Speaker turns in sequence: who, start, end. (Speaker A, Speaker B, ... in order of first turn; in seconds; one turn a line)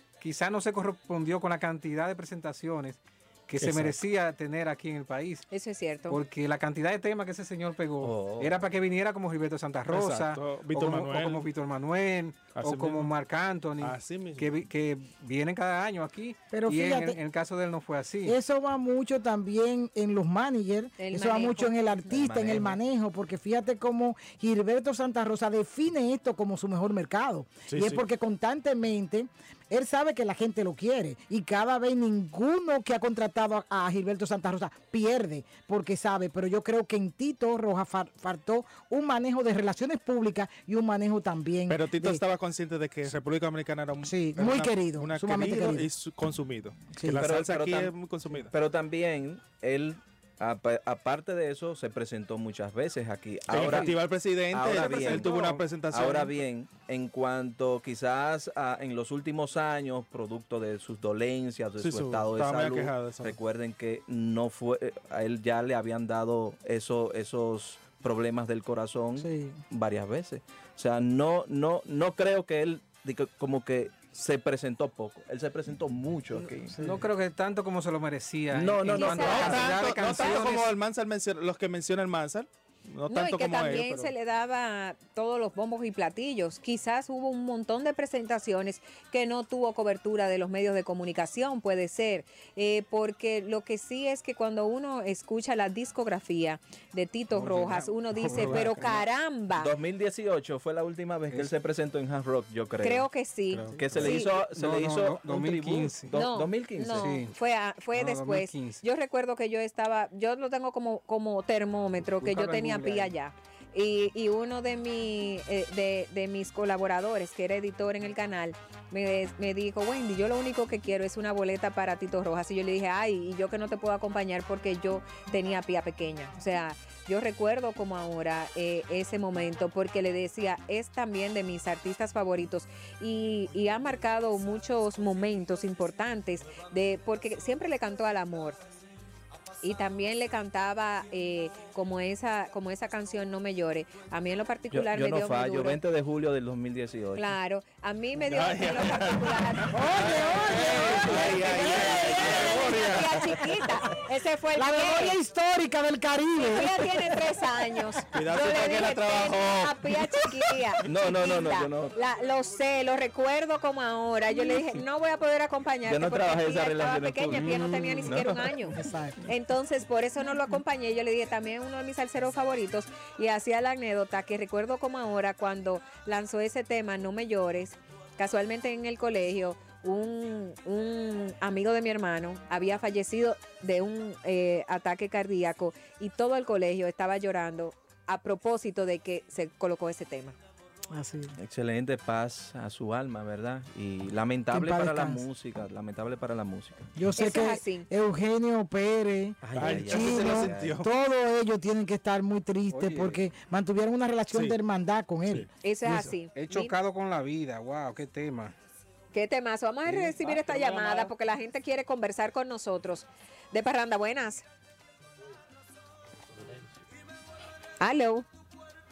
Speaker A: 0.2-5.5
Speaker B: 3.6-4.0
Speaker C: 5.5-6.2
Speaker A: 6.1-18.4
Speaker D: 8.0-8.6
Speaker B: 9.9-11.5
Speaker B: 12.5-13.1
Speaker B: 13.8-14.5
Speaker E: 16.5-17.2
Speaker E: 18.2-42.2
Speaker C: 21.0-22.2
Speaker D: 22.1-22.8
Speaker B: 27.7-28.0
Speaker B: 41.7-48.5
Speaker E: 44.0-45.9
Speaker E: 47.0-47.2
Speaker D: 47.1-76.8
Speaker B: 53.5-56.4
Speaker B: 61.8-63.4
Speaker E: 69.2-69.6
Speaker A: 76.8-80.3
Speaker E: 76.8-77.0
Speaker D: 78.5-80.0
Speaker C: 78.9-80.7
Speaker B: 79.1-84.1
Speaker C: 83.1-99.7
Speaker B: 97.3-99.0
Speaker D: 99.5-103.1
Speaker C: 102.8-104.3
Speaker D: 103.8-107.2
Speaker A: 104.1-106.1
Speaker C: 106.1-138.6
Speaker A: 107.0-107.3
Speaker A: 107.9-108.8
Speaker A: 112.2-113.1
Speaker C: 139.6-145.8
Speaker D: 144.7-147.3
Speaker C: 147.2-155.2
Speaker B: 148.2-153.3
Speaker E: 149.7-152.8
Speaker D: 151.6-152.8
Speaker E: 154.6-157.2
Speaker C: 156.4-190.3
Speaker B: 158.1-160.0
Speaker D: 160.8-161.9
Speaker D: 165.9-168.2
Speaker B: 167.3-168.4
Speaker E: 168.7-169.3
Speaker E: 190.9-191.4
Speaker D: 191.4-196.8
Speaker E: 194.5-195.2
Speaker E: 196.9-205.5
Speaker C: 197.2-197.9
Speaker B: 199.4-200.9
Speaker D: 199.5-200.8
Speaker A: 202.7-203.2
Speaker B: 204.3-204.6
Speaker C: 205.6-206.7
Speaker A: 206.3-208.5
Speaker C: 209.1-214.4
Speaker A: 209.9-211.1
Speaker C: 217.8-218.2